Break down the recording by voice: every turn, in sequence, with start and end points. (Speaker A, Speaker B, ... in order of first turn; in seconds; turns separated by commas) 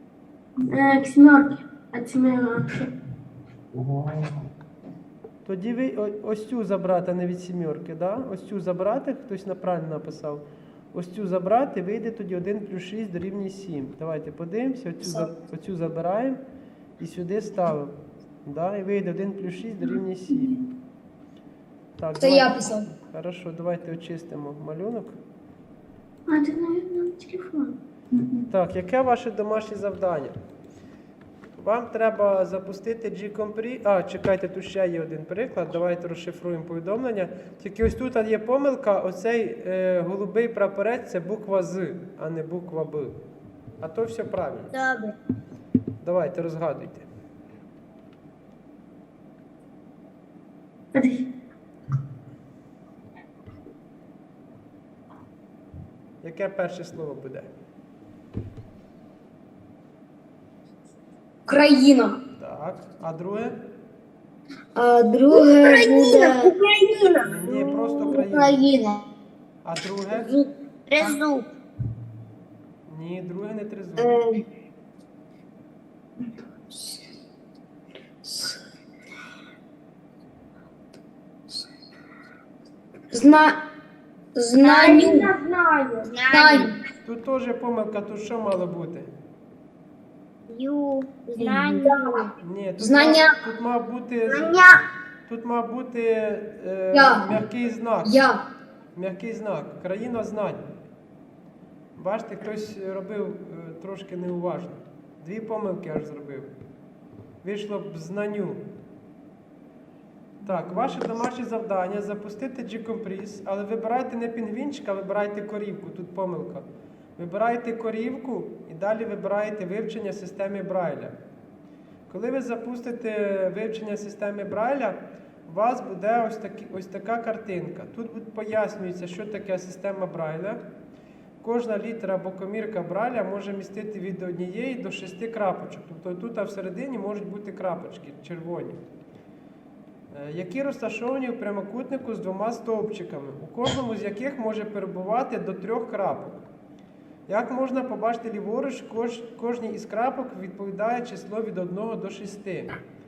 Speaker A: 0.6-2.9, Speaker B: 5.4-16.4, Speaker C: 15.0-15.3, Speaker B: 17.0-20.6, Speaker A: 20.3-20.7, Speaker B: 22.0-25.2, Speaker C: 22.2-22.9, Speaker A: 26.3-28.5, Speaker B: 28.5-30.4, Speaker B: 31.6-43.2, Speaker B: 43.8-44.7, Speaker D: 44.7-45.1, Speaker B: 46.0-47.1, Speaker A: 50.9-51.3, Speaker B: 56.2-57.5, Speaker C: 61.5-62.2, Speaker B: 62.4-63.6, Speaker C: 64.7-66.5, Speaker A: 65.3-67.5, Speaker B: 67.2-68.6, Speaker C: 67.8-69.1, Speaker B: 69.6-70.3, Speaker C: 70.1-70.5, Speaker D: 70.9-71.5, Speaker B: 72.9-74.2, Speaker C: 74.0-74.4, Speaker C: 83.1-83.6, Speaker C: 84.3-85.3, Speaker D: 84.6-85.3, Speaker A: 84.8-86.1, Speaker D: 86.0-86.7, Speaker C: 86.3-86.8, Speaker B: 87.0-89.1, Speaker D: 90.5-92.3, Speaker A: 91.4-91.9, Speaker C: 91.8-93.4, Speaker B: 92.4-94.5, Speaker C: 94.3-94.6, Speaker B: 95.2-98.1, Speaker C: 96.9-97.3, Speaker C: 98.0-98.5, Speaker B: 99.0-100.6, Speaker B: 102.0-106.5, Speaker B: 107.4-108.6, Speaker B: 110.4-116.7, Speaker B: 117.2-121.2, Speaker B: 122.1-130.6, Speaker B: 131.4-138.8, Speaker B: 140.1-146.4, Speaker B: 147.3-152.7